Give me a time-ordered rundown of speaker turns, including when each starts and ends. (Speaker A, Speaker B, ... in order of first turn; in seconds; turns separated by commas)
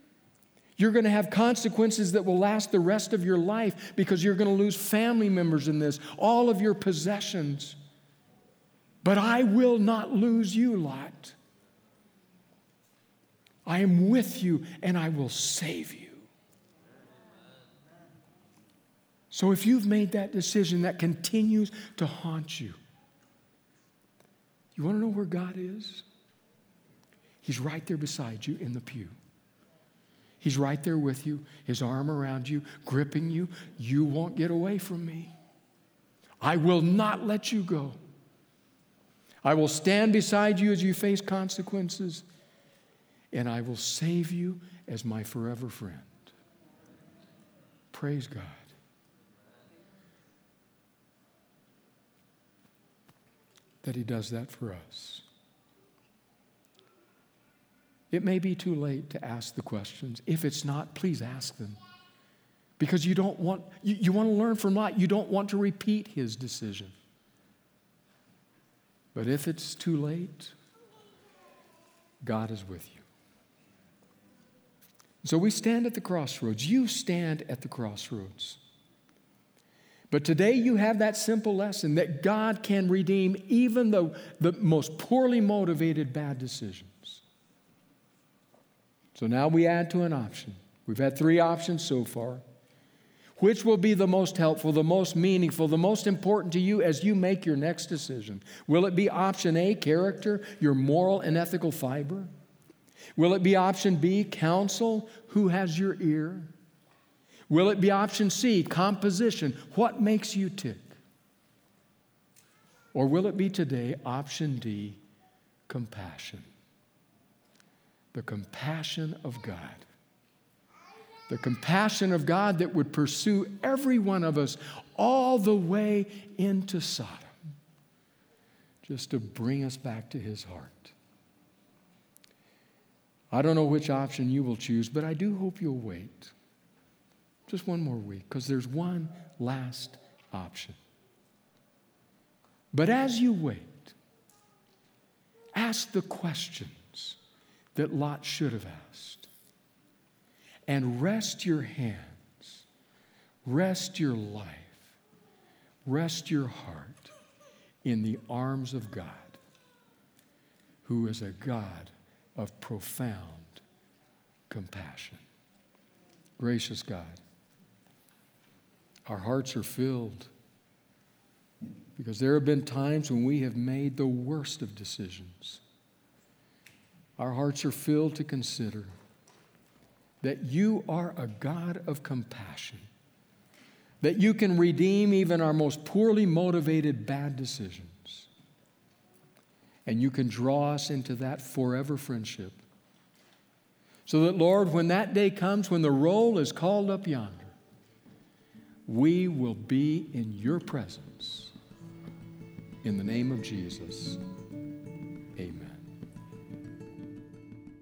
Speaker A: 0.8-7.8, Speaker A: 9.0-11.4, Speaker A: 13.7-16.3, Speaker A: 19.3-22.8, Speaker A: 24.8-26.1, Speaker A: 27.4-29.1, Speaker A: 30.4-35.3, Speaker A: 36.4-38.0, Speaker A: 39.4-42.2, Speaker A: 43.3-46.3, Speaker A: 47.9-48.7, Speaker A: 53.8-55.2, Speaker A: 58.1-61.8, Speaker A: 62.8-66.9, Speaker A: 69.1-70.5, Speaker A: 72.2-73.0, Speaker A: 75.2-78.6, Speaker A: 80.1-87.2, Speaker A: 89.1-92.4, Speaker A: 93.4-102.3, Speaker A: 103.2-106.5, Speaker A: 107.5-111.0, Speaker A: 112.9-115.0, Speaker A: 115.7-116.5, Speaker A: 118.1-119.8, Speaker A: 121.3-127.3, Speaker A: 128.8-130.9, Speaker A: 133.3-136.3, Speaker A: 137.5-140.8, Speaker A: 142.7-143.9, Speaker A: 145.5-147.2, Speaker A: 147.8-149.3, Speaker A: 150.7-152.7, Speaker A: 153.4-154.9, Speaker A: 155.9-157.1, Speaker A: 157.8-159.4, Speaker A: 160.8-163.6, Speaker A: 164.5-165.2, Speaker A: 166.4-167.2, Speaker A: 169.1-170.3, Speaker A: 172.0-175.6, Speaker A: 177.2-178.9, Speaker A: 180.2-182.9, Speaker A: 184.0-188.3, Speaker A: 189.9-192.6, Speaker A: 194.1-197.5, Speaker A: 198.9-201.5, Speaker A: 202.8-204.2, Speaker A: 205.4-205.8